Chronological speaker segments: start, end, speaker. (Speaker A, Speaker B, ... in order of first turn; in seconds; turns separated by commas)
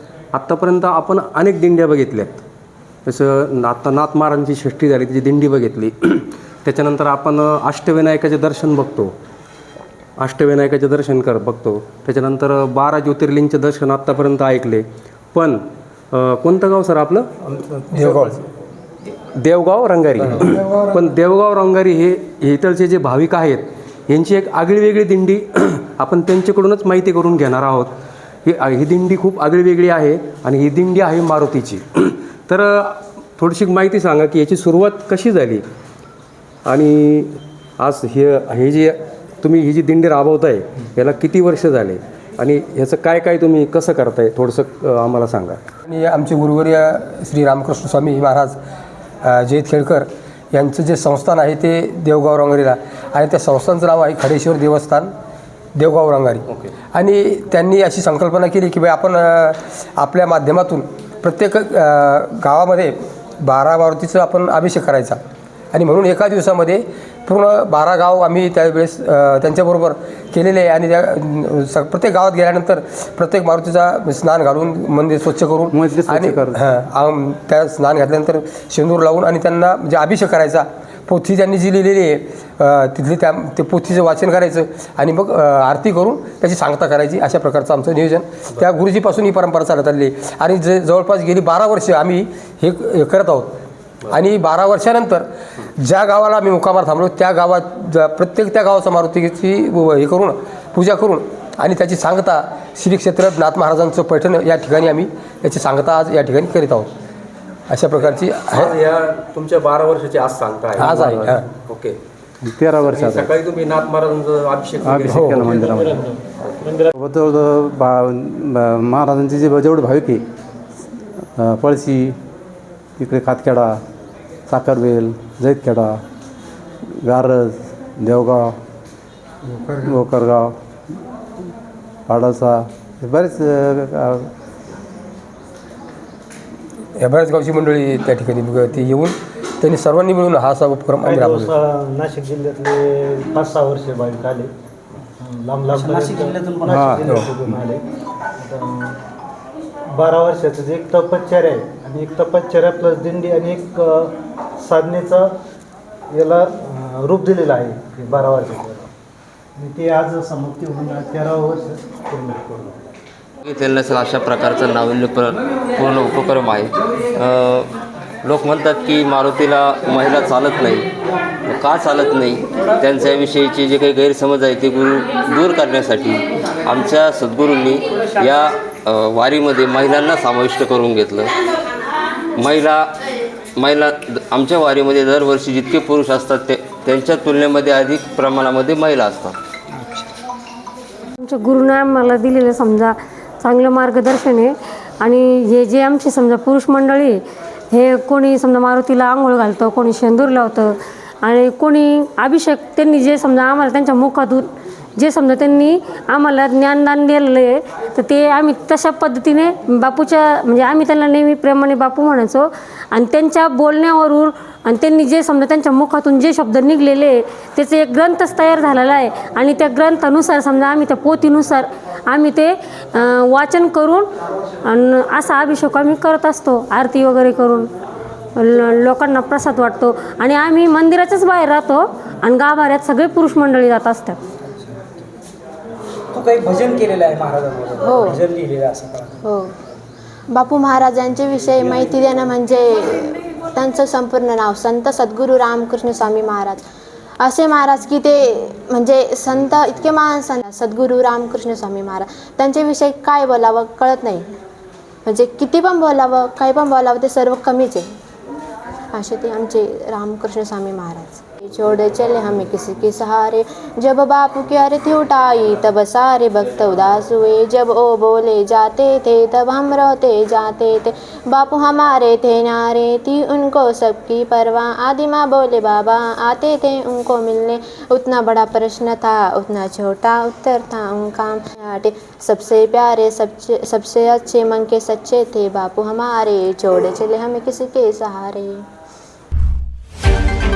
Speaker A: 0.3-2.4, Speaker A: 3.1-9.1, Speaker A: 10.2-18.4, Speaker B: 17.9-18.4, Speaker A: 19.1-27.9, Speaker B: 20.2-20.9, Speaker A: 28.4-35.6, Speaker A: 36.7-45.6, Speaker B: 45.9-48.6, Speaker B: 49.2-55.1, Speaker B: 55.8-65.2, Speaker B: 65.7-93.5, Speaker C: 75.7-76.6, Speaker B: 94.1-95.3, Speaker B: 95.8-106.9, Speaker B: 107.7-108.8, Speaker A: 108.5-112.0, Speaker B: 110.8-111.5, Speaker C: 112.4-113.3, Speaker A: 112.8-115.7, Speaker C: 114.8-116.1, Speaker B: 115.1-115.6, Speaker A: 116.4-116.8, Speaker C: 116.9-120.3, Speaker C: 121.0-122.2, Speaker C: 123.0-123.8, Speaker C: 124.5-126.0, Speaker C: 127.0-128.6, Speaker C: 129.7-130.6, Speaker C: 132.1-134.3, Speaker B: 137.0-141.5, Speaker D: 141.0-144.5, Speaker D: 145.2-147.8, Speaker E: 145.7-147.2, Speaker A: 146.8-147.2, Speaker D: 148.4-149.0, Speaker D: 150.0-154.1, Speaker D: 154.6-155.3, Speaker D: 156.2-158.9, Speaker D: 159.6-162.8, Speaker F: 163.4-167.7, Speaker F: 168.2-170.9, Speaker F: 171.5-181.3, Speaker F: 182.4-182.9, Speaker F: 183.6-189.4, Speaker G: 191.2-197.2, Speaker G: 197.7-224.1, Speaker G: 224.7-227.7, Speaker G: 228.4-234.2, Speaker E: 236.1-239.2, Speaker H: 237.8-238.2, Speaker H: 239.2-239.5, Speaker H: 240.3-246.6, Speaker H: 247.2-254.3, Speaker H: 255.1-257.9, Speaker H: 258.9-288.6